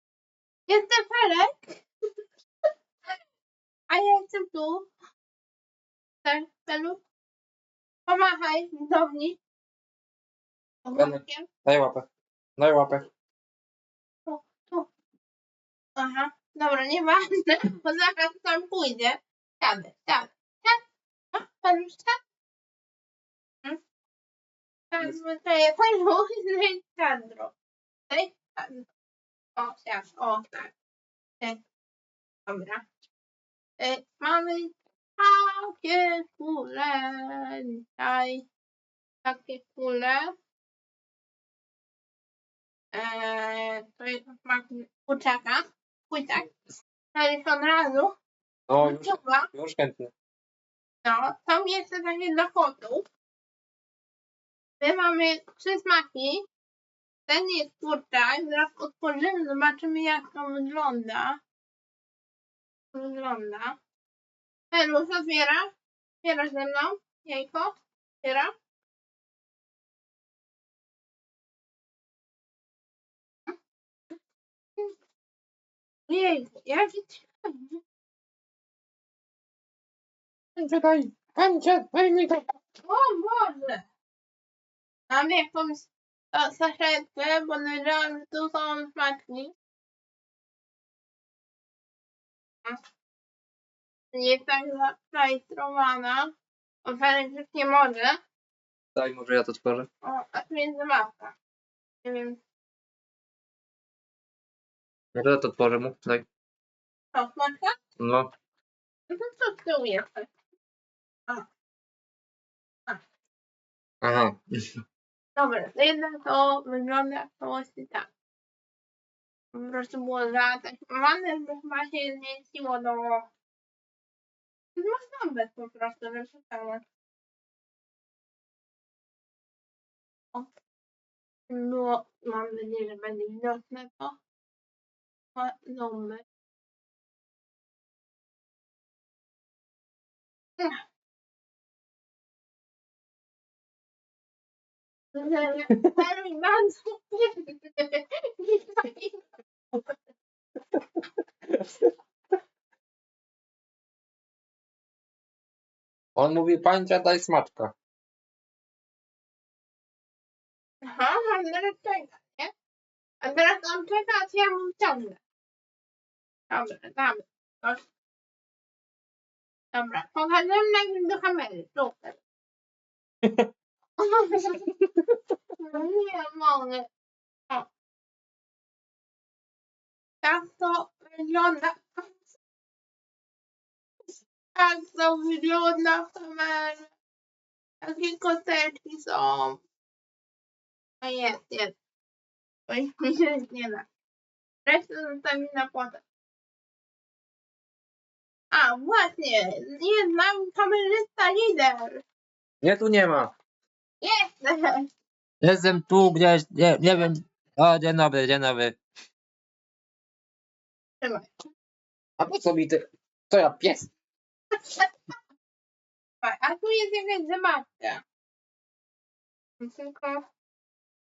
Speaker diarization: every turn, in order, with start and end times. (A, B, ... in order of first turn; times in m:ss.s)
0:00.7-0:01.8 A
0:03.9-0:04.9 A
0:06.2-0:07.0 A
0:08.1-0:09.4 A
0:10.8-0:11.5 A
0:10.9-0:13.0 B
0:14.2-0:14.9 A
0:16.0-0:20.8 A
0:21.3-0:22.2 A
0:24.9-0:27.5 A
0:28.1-0:28.9 A
0:29.6-0:30.7 A
0:32.4-0:32.8 A
0:33.8-0:38.4 A
0:39.2-0:40.3 A
0:42.9-0:46.5 A
0:47.1-0:48.1 A
0:48.7-0:50.1 B
0:48.8-0:49.5 A
0:51.0-0:53.0 A
0:54.8-0:56.4 A
0:57.3-1:01.4 A
1:02.9-1:03.8 A
1:04.7-1:05.7 A
1:06.2-1:08.5 A
1:16.1-1:17.8 A
1:20.6-1:22.4 B
1:22.8-1:23.8 A
1:25.1-1:29.5 A
1:34.1-1:36.3 A
1:36.8-1:38.2 A
1:38.9-1:39.9 B
1:40.0-1:41.4 A
1:42.0-1:42.4 A
1:45.1-1:46.2 B
1:47.1-1:47.8 A
1:48.0-1:48.3 B
1:49.1-1:50.3 A
1:54.0-1:54.5 B
1:55.4-1:58.1 A
1:59.5-2:03.3 A
2:04.8-2:06.8 A
2:11.5-2:14.2 A
2:15.3-2:16.2 A
2:25.1-2:29.2 A
2:31.5-2:31.9 B
2:36.2-2:37.7 B
2:40.8-2:42.5 A
2:43.2-2:45.2 A
2:46.5-2:47.8 A
2:49.7-2:52.2 A
2:53.2-2:53.5 B
2:54.0-2:54.7 A
2:55.6-2:56.9 A
3:00.2-3:02.1 A
3:04.5-3:06.9 A
3:07.8-3:09.6 A
3:11.0-3:11.8 A
3:12.7-3:13.8 A
3:14.6-3:16.0 A
3:18.5-3:22.0 A
3:22.6-3:23.3 B
3:24.0-3:24.8 A
3:25.4-3:28.8 B
3:31.0-3:31.3 A
3:32.2-3:33.9 B
3:36.2-3:38.0 A
3:39.6-3:40.2 A